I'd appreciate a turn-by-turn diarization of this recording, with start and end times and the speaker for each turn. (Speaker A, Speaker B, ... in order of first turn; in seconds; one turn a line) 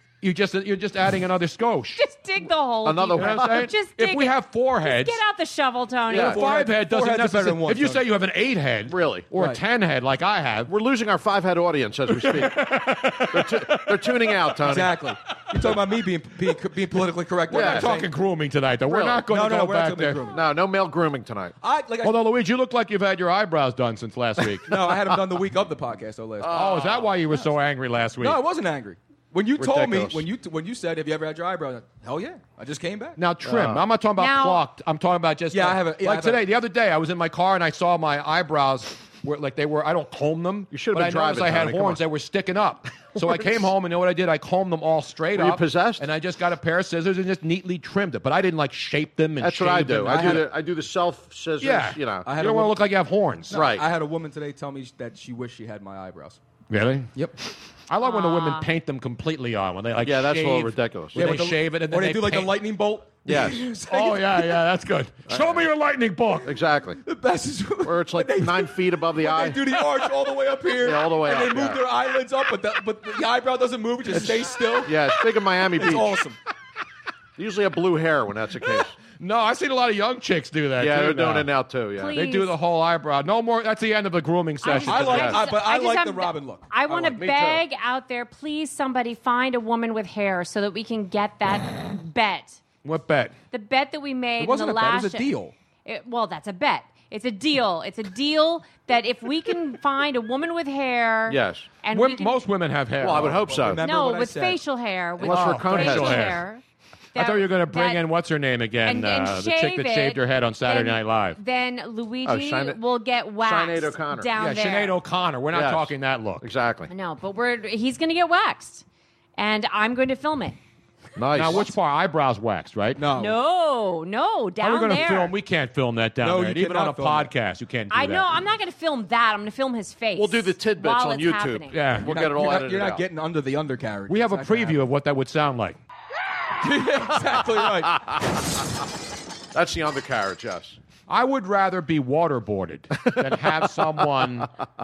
Speaker A: 0.2-2.0
Speaker B: 2.0-6.4
Speaker C: 2.8-3.7
Speaker A: 3.1-5.2
Speaker C: 6.1-6.4
Speaker D: 6.2-8.0
Speaker A: 6.2-10.7
Speaker C: 8.9-9.3
Speaker D: 9.3-9.6
Speaker C: 10.7-12.7
Speaker A: 12.1-14.6
Speaker C: 13.3-15.0
Speaker D: 14.6-18.1
Speaker A: 17.5-20.3
Speaker C: 17.5-18.0
Speaker C: 18.9-19.3
Speaker D: 19.2-20.4
Speaker C: 20.3-21.5
Speaker D: 21.6-22.1
Speaker A: 22.0-24.6
Speaker D: 24.7-26.8
Speaker C: 26.4-27.1
Speaker A: 26.5-28.4
Speaker D: 28.2-33.2
Speaker C: 29.6-30.2
Speaker A: 33.2-50.4
Speaker C: 33.4-33.8
Speaker B: 34.2-34.6
Speaker D: 35.5-36.4
Speaker C: 40.7-42.0
Speaker C: 43.1-43.6
Speaker C: 45.3-46.0
Speaker C: 49.4-52.3
Speaker D: 50.0-50.5
Speaker A: 51.6-53.6
Speaker D: 52.2-52.8
Speaker D: 53.5-56.4
Speaker C: 53.5-53.9
Speaker A: 56.7-57.2
Speaker A: 57.9-62.5
Speaker B: 58.0-58.7
Speaker C: 60.0-61.4
Speaker D: 61.1-64.5
Speaker C: 63.2-63.7
Speaker A: 63.9-66.5
Speaker C: 65.3-65.7
Speaker C: 66.4-67.0
Speaker D: 67.0-75.1
Speaker C: 67.8-69.6
Speaker C: 70.8-71.8
Speaker C: 74.1-76.2
Speaker D: 75.7-76.4
Speaker C: 77.4-78.9
Speaker A: 79.2-81.5
Speaker C: 80.8-82.2
Speaker B: 82.0-82.5
Speaker A: 82.1-85.4
Speaker B: 84.6-92.6
Speaker D: 84.8-87.0
Speaker C: 86.9-87.6
Speaker A: 92.8-93.3
Speaker B: 93.5-95.3
Speaker D: 94.4-95.5
Speaker B: 95.8-102.3
Speaker C: 101.3-101.7
Speaker A: 101.9-103.6
Speaker C: 103.0-103.8
Speaker D: 103.4-104.6
Speaker B: 103.8-106.6
Speaker C: 105.2-106.4
Speaker A: 105.2-106.4
Speaker B: 107.1-108.0
Speaker A: 107.1-111.4
Speaker B: 108.8-115.0
Speaker C: 112.2-112.8
Speaker C: 113.4-114.3
Speaker A: 114.3-116.4
Speaker C: 115.5-116.9
Speaker B: 116.9-118.8
Speaker B: 119.4-120.6
Speaker C: 121.2-121.8
Speaker A: 121.3-123.0
Speaker D: 123.0-123.4
Speaker B: 123.1-125.3
Speaker A: 124.6-128.3
Speaker D: 126.2-127.3
Speaker B: 127.9-131.8
Speaker C: 130.1-133.0
Speaker A: 131.7-132.1
Speaker D: 132.0-134.8
Speaker A: 134.1-135.8
Speaker D: 136.6-138.0
Speaker C: 139.5-140.8
Speaker A: 141.1-144.5
Speaker C: 143.0-143.8